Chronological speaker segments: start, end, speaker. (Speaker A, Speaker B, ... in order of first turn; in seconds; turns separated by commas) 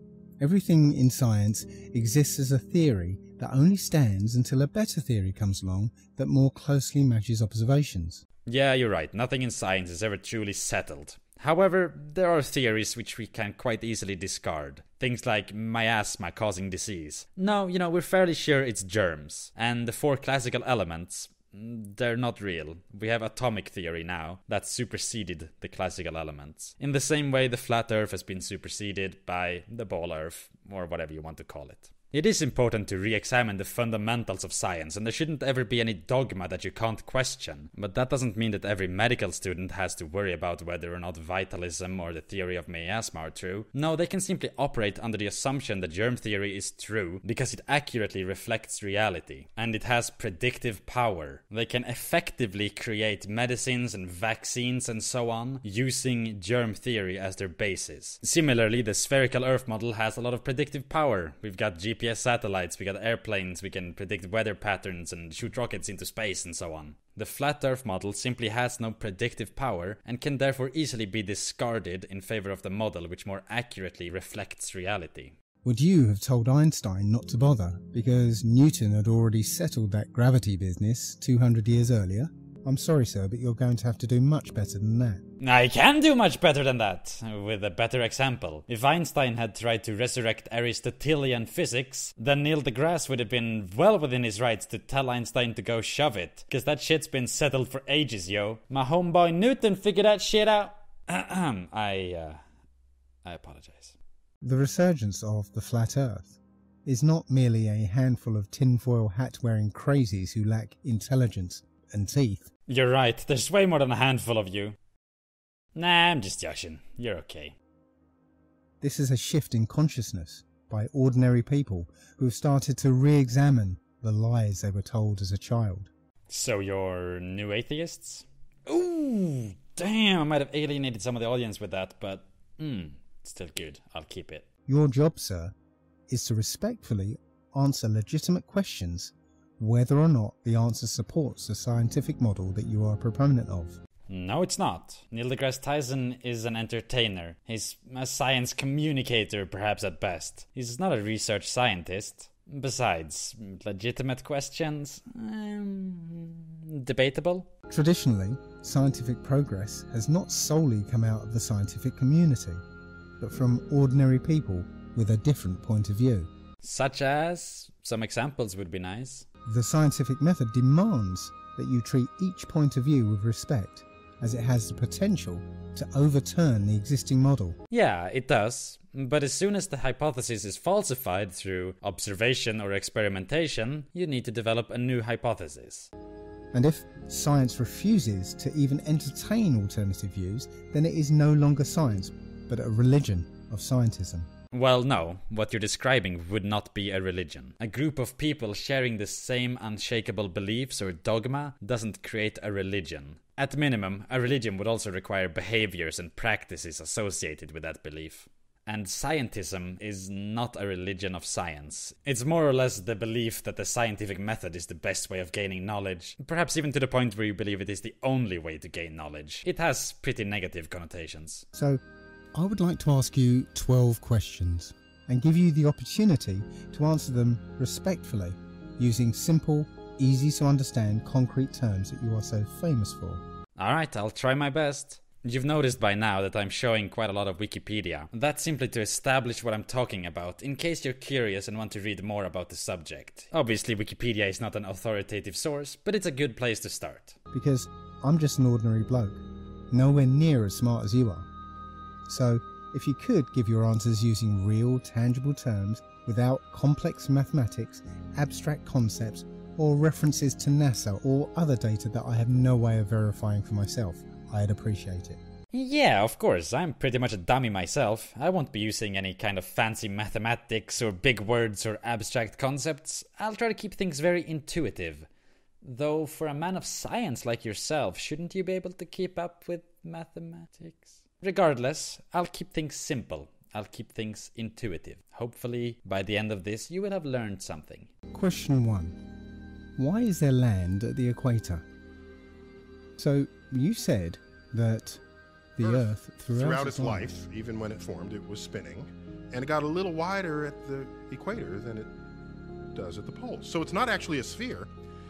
Speaker A: 0.4-8.2, Speaker B: 8.4-75.3, Speaker A: 75.6-85.2, Speaker B: 85.4-102.4, Speaker B: 103.2-103.9, Speaker A: 104.4-112.5, Speaker B: 112.7-114.8, Speaker B: 115.8-117.5, Speaker A: 118.8-125.9, Speaker B: 126.3-134.4, Speaker A: 134.7-135.5, Speaker A: 136.1-143.8, Speaker B: 144.1-157.5, Speaker A: 157.7-162.6, Speaker A: 163.2-166.3, Speaker B: 166.6-169.2, Speaker A: 169.4-177.6, Speaker B: 177.7-185.9, Speaker A: 186.5-194.3, Speaker B: 194.5-221.4, Speaker A: 221.5-221.8, Speaker A: 222.3-233.2, Speaker B: 233.6-247.2, Speaker A: 247.3-251.3, Speaker A: 252.1-265.2, Speaker B: 265.5-275.1, Speaker B: 275.6-287.9, Speaker A: 288.1-289.0, Speaker A: 289.8-291.6, Speaker A: 293.0-295.0, Speaker A: 295.6-297.2, Speaker C: 295.6-301.9, Speaker C: 302.7-304.7